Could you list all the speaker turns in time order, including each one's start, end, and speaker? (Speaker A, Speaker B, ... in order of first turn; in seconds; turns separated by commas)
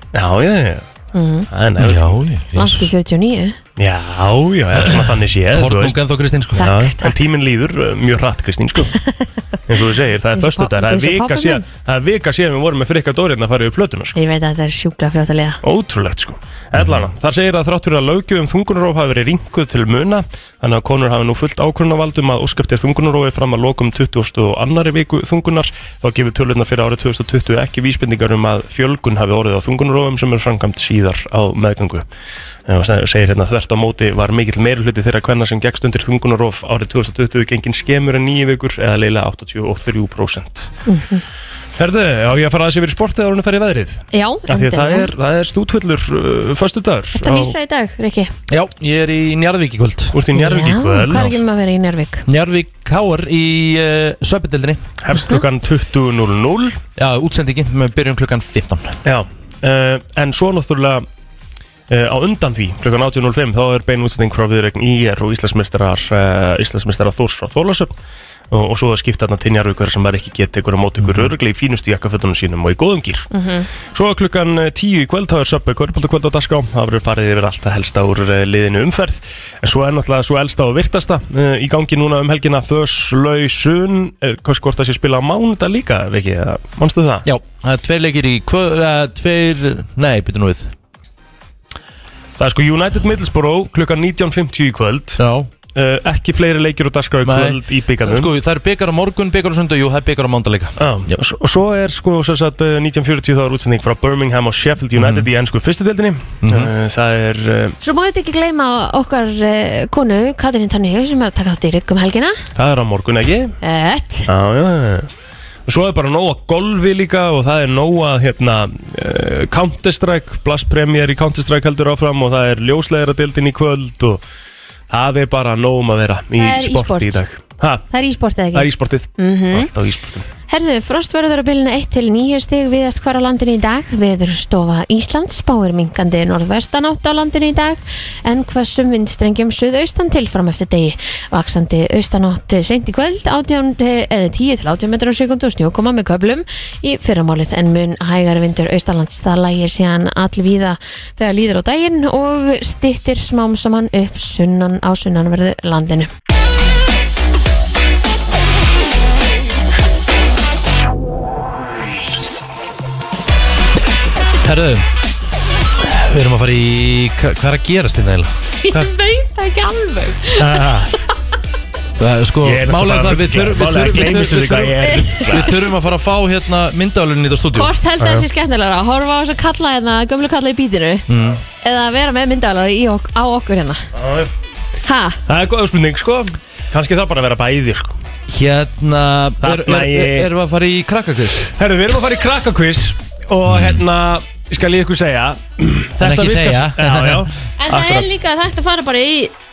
Speaker A: 0.1-0.9, Speaker B: 1.1-1.5, Speaker A: 1.5-2.2, Speaker C: 1.8-2.9, Speaker B: 2.5-3.6, Speaker A: 3.8-6.0, Speaker C: 4.7-6.7, Speaker A: 6.6-8.9, Speaker B: 6.6-7.1, Speaker A: 9.7-14.2, Speaker B: 10.4-11.6, Speaker B: 14.1-15.6, Speaker A: 15.6-32.1, Speaker C: 16.8-17.0, Speaker A: 32.7-40.7, Speaker B: 40.9-41.2, Speaker A: 41.8-47.5, Speaker B: 44.1-45.1, Speaker B: 47.1-48.3, Speaker C: 48.5-50.2, Speaker A: 50.1-51.3, Speaker B: 50.3-52.3, Speaker C: 52.3-54.8, Speaker A: 55.0-56.8, Speaker B: 55.1-55.4, Speaker C: 57.0-59.0, Speaker A: 59.0-61.1, Speaker A: 61.9-67.9, Speaker A: 68.5-73.3, Speaker C: 71.0-71.3, Speaker B: 73.3-73.7, Speaker A: 73.9-87.2, Speaker C: 87.2-90.7, Speaker A: 92.4-95.2, Speaker C: 95.2-95.5, Speaker A: 95.8-98.3, Speaker C: 97.2-101.2, Speaker A: 100.8-107.8, Speaker C: 105.0-105.3, Speaker C: 106.4-106.7, Speaker B: 107.8-112.4, Speaker A: 112.5-113.5, Speaker B: 113.6-114.3, Speaker A: 114.3-115.1, Speaker A: 115.7-124.2, Speaker A: 124.9-127.9, Speaker B: 126.4-127.2, Speaker B: 127.9-129.7, Speaker A: 128.5-130.3, Speaker B: 130.5-156.1, Speaker C: 164.4-164.9, Speaker C: 165.8-168.9, Speaker B: 168.6-170.7, Speaker A: 170.4-170.9, Speaker C: 172.0-177.7, Speaker A: 172.4-175.5, Speaker B: 174.9-175.2, Speaker B: 177.5-181.1, Speaker A: 178.0-178.3, Speaker C: 181.1-181.4, Speaker B: 181.6-183.8, Speaker A: 183.9-184.3, Speaker B: 184.8-185.2, Speaker A: 185.3-187.9, Speaker C: 188.3-191.5, Speaker A: 189.4-190.3, Speaker A: 191.5-198.1, Speaker C: 193.5-193.8, Speaker C: 196.0-197.3, Speaker B: 197.6-199.3